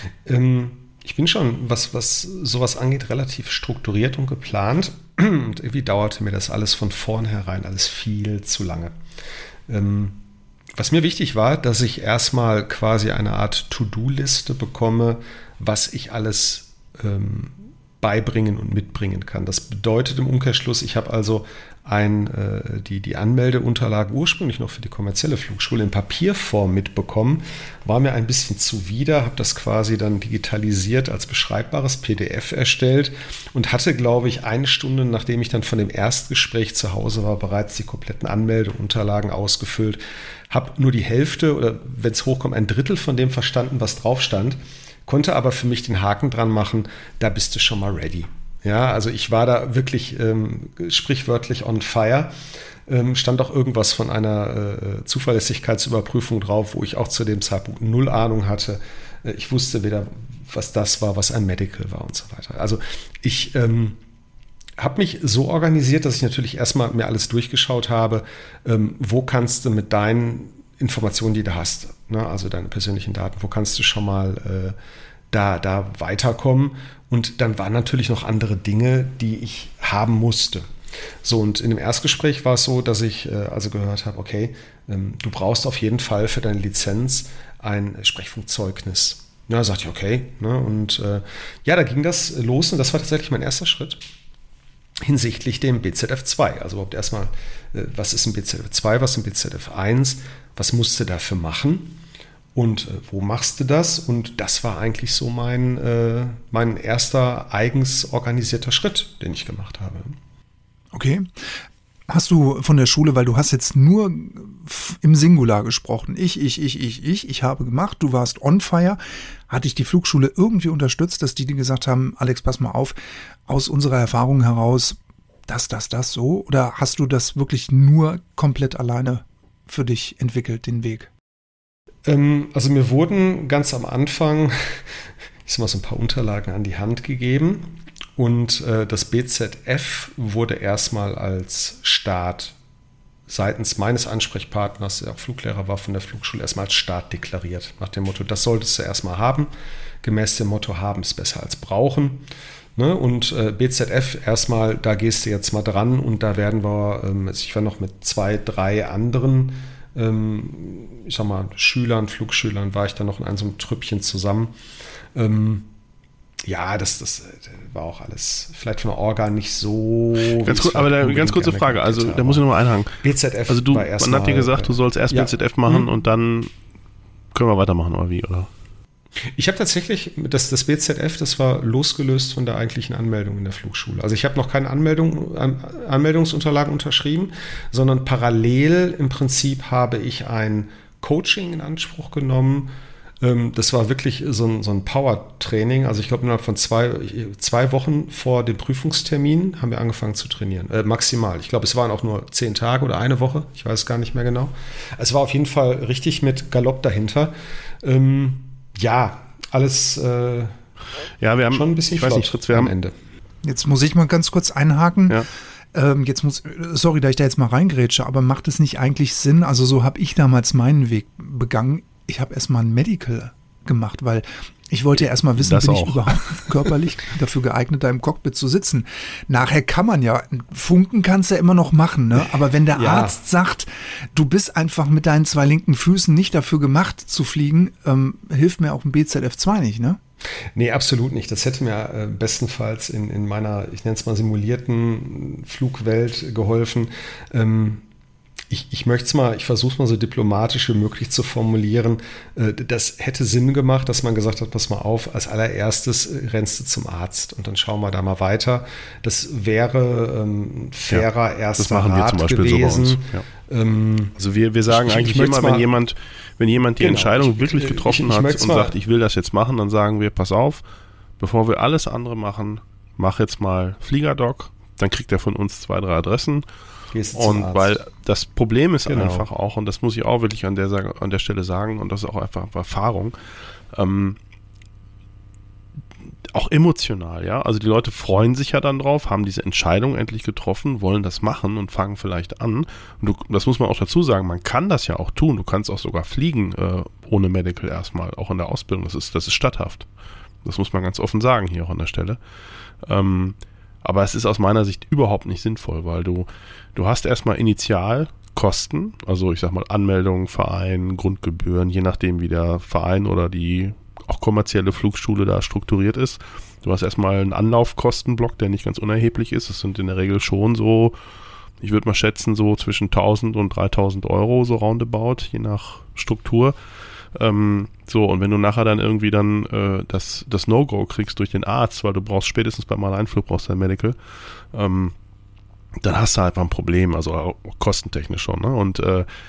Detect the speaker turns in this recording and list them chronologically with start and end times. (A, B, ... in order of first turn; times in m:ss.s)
0:00.3-0:09.0 A
0:09.7-0:10.2 A
0:10.8-1:04.0 A
1:04.8-1:14.8 A
1:15.3-1:20.7 A
1:21.2-1:34.0 A
1:35.0-1:42.0 A
1:42.6-1:50.2 A
1:50.9-1:51.3 B
1:52.1-2:03.0 B
2:03.5-2:11.1 B
2:12.1-2:14.9 A
2:15.5-2:22.6 A
2:23.3-2:29.5 A
2:30.0-2:44.5 A
2:45.2-2:45.7 A
2:46.4-2:52.4 A
2:50.4-2:56.5 C
2:53.0-2:55.9 A
2:57.3-2:58.5 C
2:59.4-3:30.6 A
3:31.2-3:32.7 C
3:31.5-3:33.0 A
3:33.4-4:00.0 B
3:45.4-3:46.4 C
3:52.7-3:53.1 A
4:00.6-4:07.8 A
4:08.5-4:24.2 A
4:21.6-4:23.2 C
4:24.2-4:30.6 C
4:24.7-4:25.7 A
4:26.8-4:28.8 A
4:31.2-4:36.4 C
4:36.9-4:37.8 A
4:37.1-4:43.2 C
4:38.9-4:39.3 A
4:43.7-4:44.2 C
4:46.3-4:59.9 C
5:00.4-5:02.2 C
5:02.8-5:21.0 C
5:21.6-5:26.6 C
5:27.2-5:34.0 C
5:34.5-5:35.0 C
5:35.8-5:39.1 C